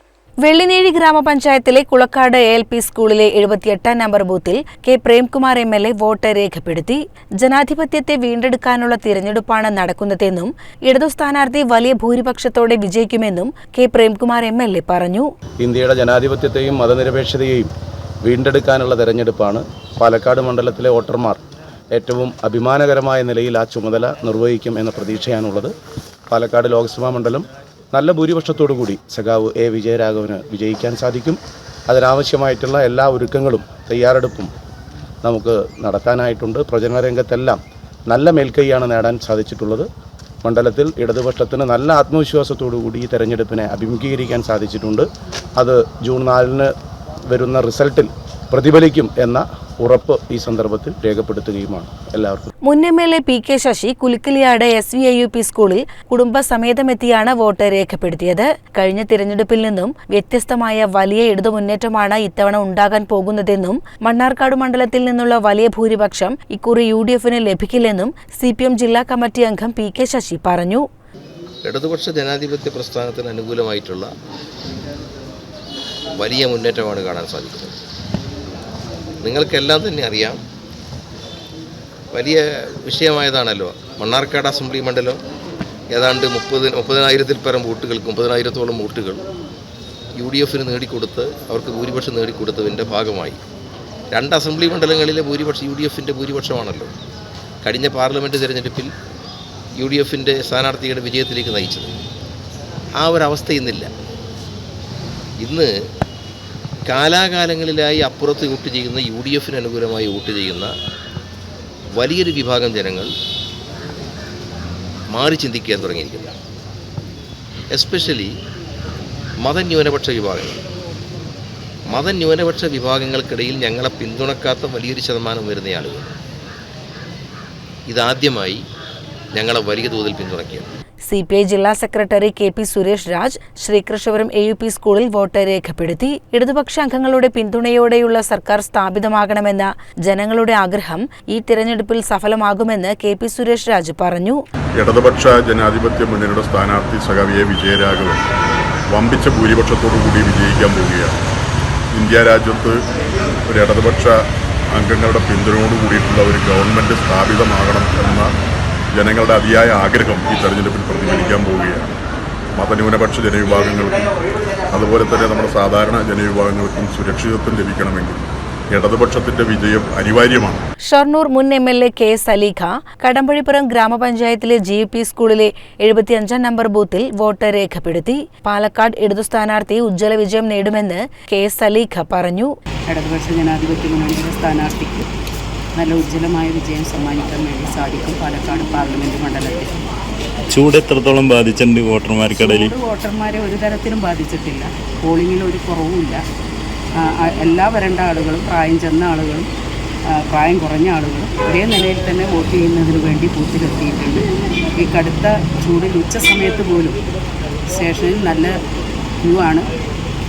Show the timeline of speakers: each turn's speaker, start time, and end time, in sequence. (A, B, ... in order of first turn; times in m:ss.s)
0:00.4-0:15.3 A
0:15.6-0:17.7 B
0:18.2-0:21.4 B
0:21.9-0:25.7 B
0:26.3-0:34.5 B
0:35.2-0:39.9 B
0:40.4-0:45.1 B
0:45.6-0:46.7 B
0:47.3-0:52.5 B
0:52.7-1:10.8 A
1:11.7-1:14.1 C
1:16.2-1:17.8 C
1:19.2-1:20.4 C
1:22.1-1:25.2 C
1:25.9-1:29.3 C
1:30.2-1:33.4 C
1:34.1-1:36.9 C
1:37.6-1:38.9 C
1:39.8-1:42.0 C
1:43.0-1:43.9 C
1:45.4-1:45.7 C
1:46.9-1:50.7 C
1:52.0-1:53.1 C
1:55.1-1:56.3 C
1:57.7-1:58.3 C
1:59.4-2:00.6 C
2:01.9-2:06.2 C
2:07.9-2:08.6 C
2:09.4-2:10.7 C
2:11.1-2:24.4 A
2:24.8-2:28.2 D
2:28.9-2:31.2 D
2:31.9-2:32.8 D
2:33.5-2:34.1 D
2:34.7-2:38.3 D
2:39.0-2:42.0 D
2:42.6-2:44.1 D
2:44.7-2:50.6 D
2:50.9-3:02.5 A
3:02.9-3:05.1 E
3:05.8-3:09.8 E
3:10.5-3:12.8 F
3:12.3-3:16.2 E
3:17.0-3:19.5 E
3:20.3-3:27.0 E
3:27.7-3:28.5 E
3:29.3-3:29.7 E